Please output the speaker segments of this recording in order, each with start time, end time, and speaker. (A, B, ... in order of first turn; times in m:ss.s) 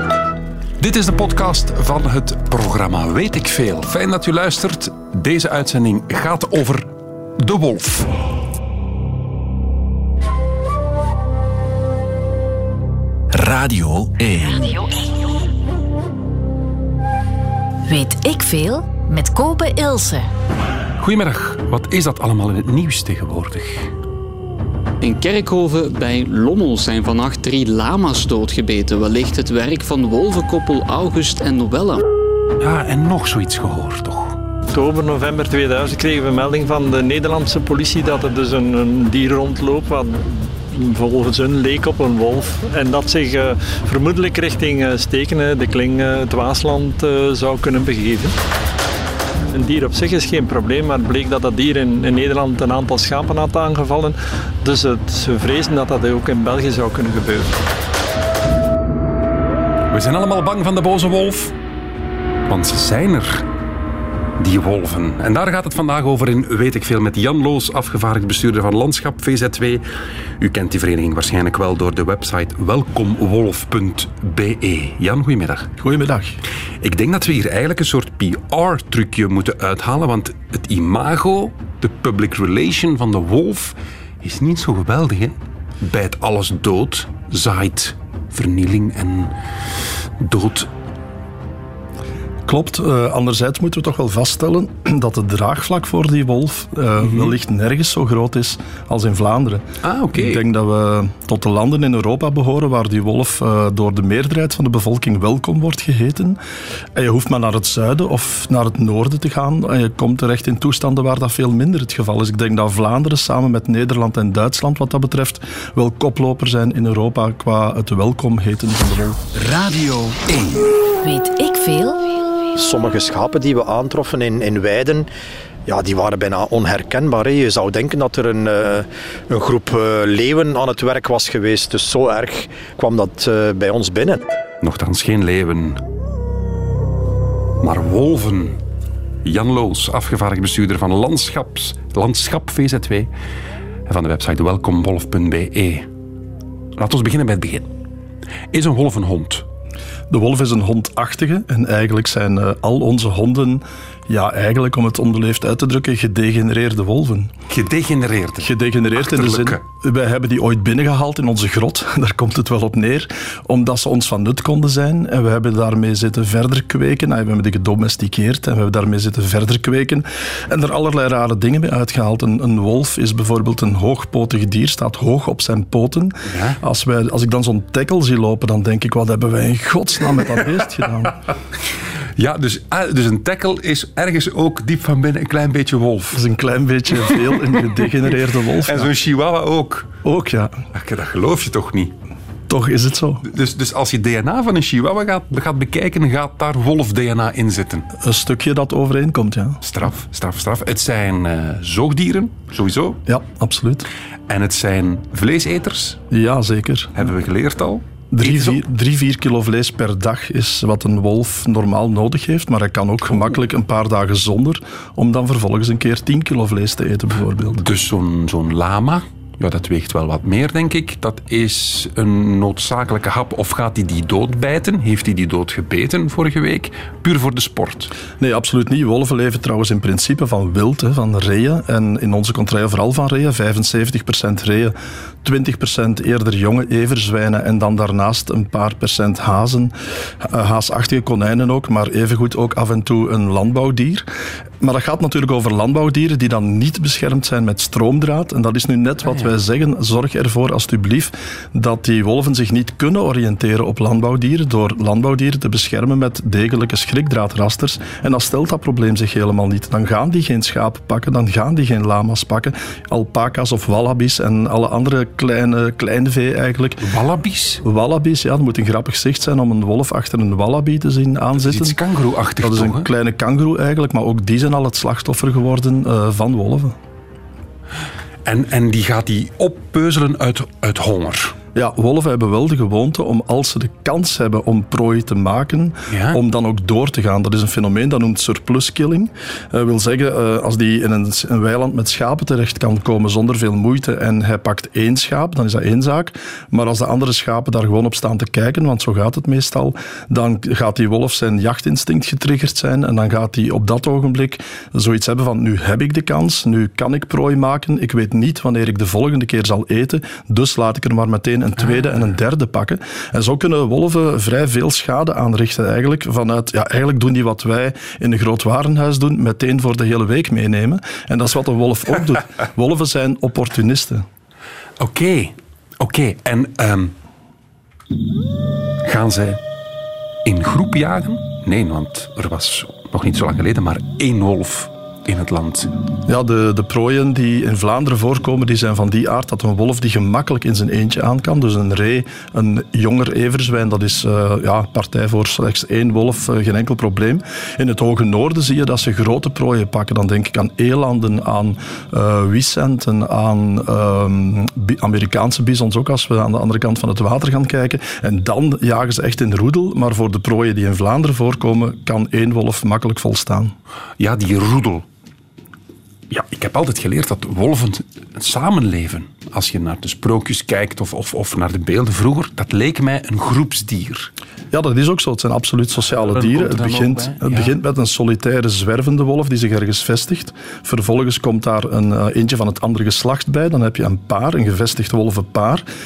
0:00.8-0:08.1 A
0:13.3-0:14.8 B
0:17.9-0:20.3 C
0:21.0-0:23.9 A
0:25.0-0:32.0 D
0:32.6-0:34.4 A
0:34.7-0:48.3 E
0:49.5-0:57.6 E
0:59.9-1:01.6 A
1:02.5-1:03.5 A
1:04.4-1:09.8 A
1:10.4-1:15.7 A
1:15.8-1:16.4 F
1:16.8-1:29.3 A
1:30.2-1:30.7 A
1:32.5-1:46.4 F
1:37.0-1:37.4 A
1:39.8-1:40.4 A
1:47.0-1:59.2 F
1:59.4-2:00.6 B
2:01.0-2:02.1 C
2:02.6-2:05.1 G
2:05.7-2:14.3 G
2:14.6-2:15.8 A
2:17.6-2:18.6 A
2:19.2-2:23.1 A
2:23.9-2:25.9 A
2:26.8-2:27.7 A
2:28.5-2:29.5 A
2:30.1-2:37.3 F
2:37.5-2:39.6 A
2:38.4-3:01.2 F
2:56.3-2:56.6 A
3:02.2-3:06.2 A
3:06.1-3:08.9 F
3:07.1-3:07.9 A
3:08.6-3:09.9 A
3:10.0-3:10.6 F
3:10.7-3:11.9 A
3:12.5-3:13.2 F
3:13.2-3:17.9 A
3:18.0-3:19.6 F
3:19.6-3:23.0 A
3:23.1-3:23.9 F
3:24.3-3:26.0 A
3:26.1-3:27.0 F
3:27.0-3:28.6 A
3:28.1-3:37.7 F
3:37.6-3:47.9 A
3:48.2-4:04.1 F
4:04.6-4:26.8 F
4:26.8-4:27.6 A
4:27.6-4:31.8 F
4:31.4-4:32.9 A
4:32.4-4:36.8 F
4:38.2-4:41.4 A
4:41.6-5:24.1 F
4:45.9-4:46.2 A
5:24.8-5:27.0 A
5:28.8-5:29.4 A
5:30.2-5:35.7 A
5:36.1-6:03.5 F
6:04.0-6:04.8 A
6:06.1-6:14.1 A
6:14.5-6:25.6 F
6:15.9-6:17.6 A